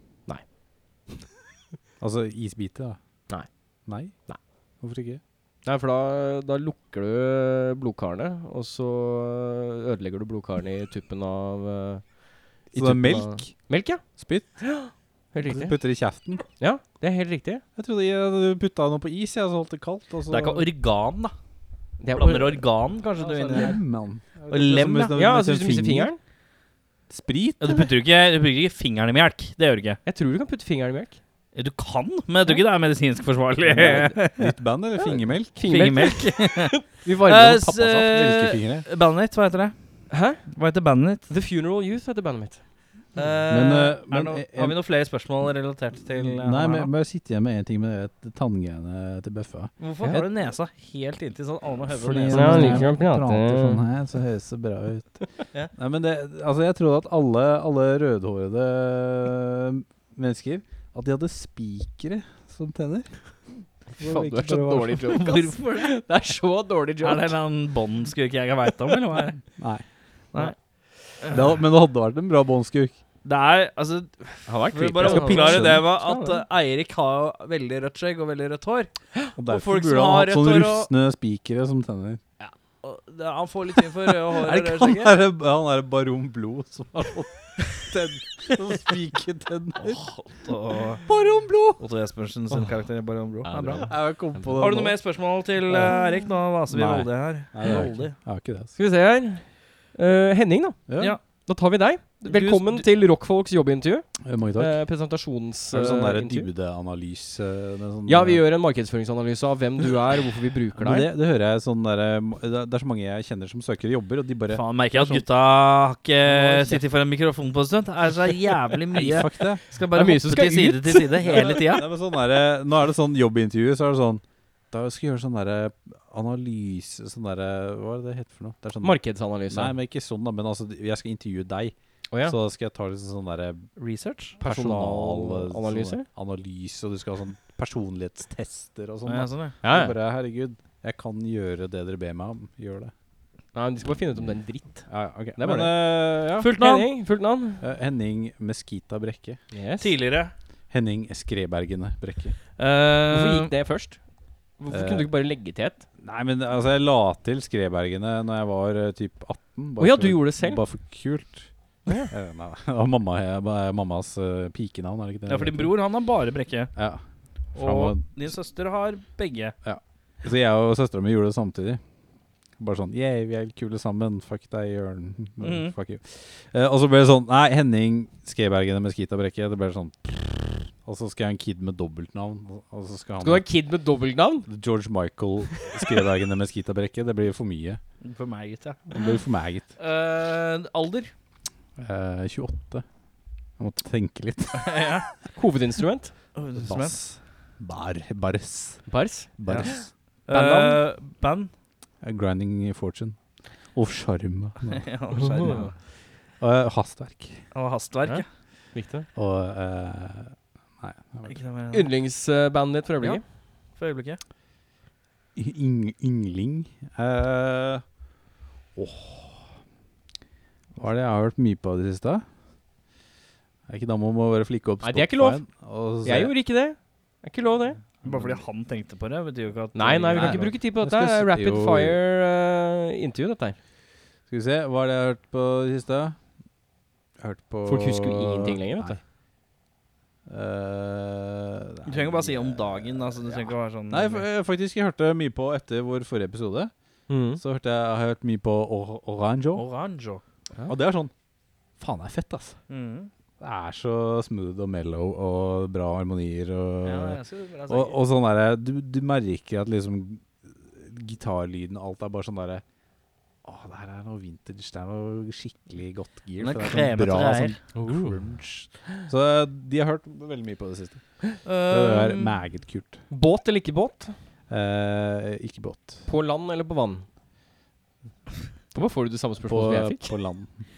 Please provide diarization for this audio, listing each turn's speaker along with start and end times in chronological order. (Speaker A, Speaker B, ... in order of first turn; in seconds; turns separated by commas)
Speaker A: 2.0-3.0, Speaker A: 3.9-4.1, Speaker A: 4.8-5.2, Speaker B: 5.6-15.8, Speaker A: 12.7-14.7, Speaker A: 15.4-16.4, Speaker B: 16.6-17.6, Speaker A: 17.8-20.6, Speaker C: 20.3-21.3, Speaker B: 22.0-22.6, Speaker C: 22.1-23.8, Speaker A: 23.2-26.1, Speaker C: 24.5-25.1, Speaker B: 25.1-26.2, Speaker A: 27.1-27.9, Speaker C: 27.6-30.0, Speaker B: 30.1-31.2, Speaker C: 31.5-34.5, Speaker A: 33.7-35.5, Speaker B: 33.7-34.2, Speaker B: 35.5-38.2, Speaker C: 35.7-39.7, Speaker A: 38.1-38.9, Speaker B: 40.1-40.4, Speaker C: 40.3-41.3, Speaker B: 41.3-42.6, Speaker C: 43.1-46.9, Speaker A: 43.5-44.8, Speaker A: 46.1-50.2, Speaker C: 49.8-52.9, Speaker A: 51.9-63.1, Speaker B: 52.3-53.8, Speaker B: 63.9-67.3, Speaker A: 64.0-65.0, Speaker C: 65.1-66.0, Speaker C: 67.0-69.4, Speaker A: 69.6-69.8, Speaker C: 71.2-71.5, Speaker A: 71.3-73.0, Speaker C: 73.2-78.9, Speaker B: 74.5-76.4, Speaker A: 75.0-75.9, Speaker A: 79.4-82.2, Speaker C: 79.5-80.9, Speaker C: 82.4-85.2, Speaker A: 84.1-90.0, Speaker C: 89.8-91.0, Speaker A: 91.1-91.8, Speaker C: 91.8-94.0, Speaker B: 93.5-94.6, Speaker A: 93.5-95.0, Speaker C: 94.6-98.1, Speaker A: 95.7-96.0, Speaker A: 96.7-98.7, Speaker B: 98.8-106.5, Speaker A: 100.9-101.2, Speaker C: 102.2-102.8, Speaker A: 104.2-104.8, Speaker A: 105.7-108.4, Speaker B: 108.1-111.1, Speaker A: 110.8-115.2, Speaker C: 114.5-121.9, Speaker A: 116.3-116.8, Speaker B: 116.4-116.8, Speaker A: 118.9-119.6, Speaker B: 119.9-121.6, Speaker A: 121.2-133.7, Speaker B: 128.8-129.7, Speaker B: 132.1-132.4, Speaker C: 133.8-134.4, Speaker A: 134.4-142.9, Speaker B: 134.4-136.1, Speaker C: 139.1-139.6, Speaker B: 139.6-139.9, Speaker B: 143.5-147.6, Speaker A: 144.9-146.5, Speaker C: 146.4-146.9, Speaker A: 147.6-149.4, Speaker B: 149.5-149.9, Speaker C: 149.8-150.3, Speaker A: 150.7-152.3, Speaker C: 152.6-153.5, Speaker B: 153.1-154.0, Speaker B: 154.6-155.8, Speaker A: 154.7-155.1, Speaker A: 156.0-161.5, Speaker B: 159.8-160.6, Speaker B: 161.8-162.1, Speaker A: 162.1-165.7, Speaker C: 165.3-166.7, Speaker A: 166.8-167.0, Speaker A: 167.5-168.0, Speaker C: 167.5-169.5, Speaker A: 169.6-171.8, Speaker A: 172.6-183.5, Speaker C: 175.4-175.7, Speaker B: 183.2-184.5, Speaker A: 184.5-187.8, Speaker C: 188.0-188.8, Speaker A: 188.9-189.7, Speaker C: 189.8-191.1, Speaker A: 191.8-192.8, Speaker A: 193.6-194.9, Speaker C: 194.5-195.1, Speaker B: 195.3-196.1, Speaker C: 196.3-197.0, Speaker A: 196.6-199.9, Speaker B: 198.9-200.8, Speaker C: 200.3-201.5, Speaker A: 202.0-203.2, Speaker A: 203.7-204.9, Speaker C: 204.7-205.7, Speaker B: 205.1-205.7, Speaker A: 205.4-205.7, Speaker A: 206.4-207.4, Speaker C: 207.5-208.2, Speaker B: 208.7-209.1, Speaker A: 209.1-211.3, Speaker C: 211.3-211.9, Speaker B: 211.7-213.2, Speaker C: 213.0-214.2, Speaker A: 215.3-217.8, Speaker A: 218.8-219.4, Speaker A: 220.8-222.2, Speaker A: 223.7-226.3, Speaker B: 224.8-225.4, Speaker B: 226.0-227.8, Speaker A: 228.0-228.4, Speaker C: 228.0-230.5, Speaker B: 229.7-233.6, Speaker A: 230.1-232.0, Speaker A: 234.3-236.2, Speaker A: 237.2-239.0, Speaker B: 237.7-239.0, Speaker A: 240.3-246.7, Speaker C: 241.8-244.2, Speaker B: 247.1-247.4, Speaker A: 247.3-249.6, Speaker C: 249.5-250.2, Speaker A: 250.7-251.1, Speaker A: 251.8-252.6, Speaker C: 252.7-253.1, Speaker A: 253.4-262.6, Speaker C: 256.8-258.0, Speaker A: 263.4-273.0, Speaker C: 266.4-267.6, Speaker B: 267.8-268.2, Speaker C: 271.4-272.4, Speaker B: 273.1-274.1, Speaker A: 274.5-276.1, Speaker B: 276.1-277.1, Speaker B: 278.7-280.1, Speaker A: 279.4-280.6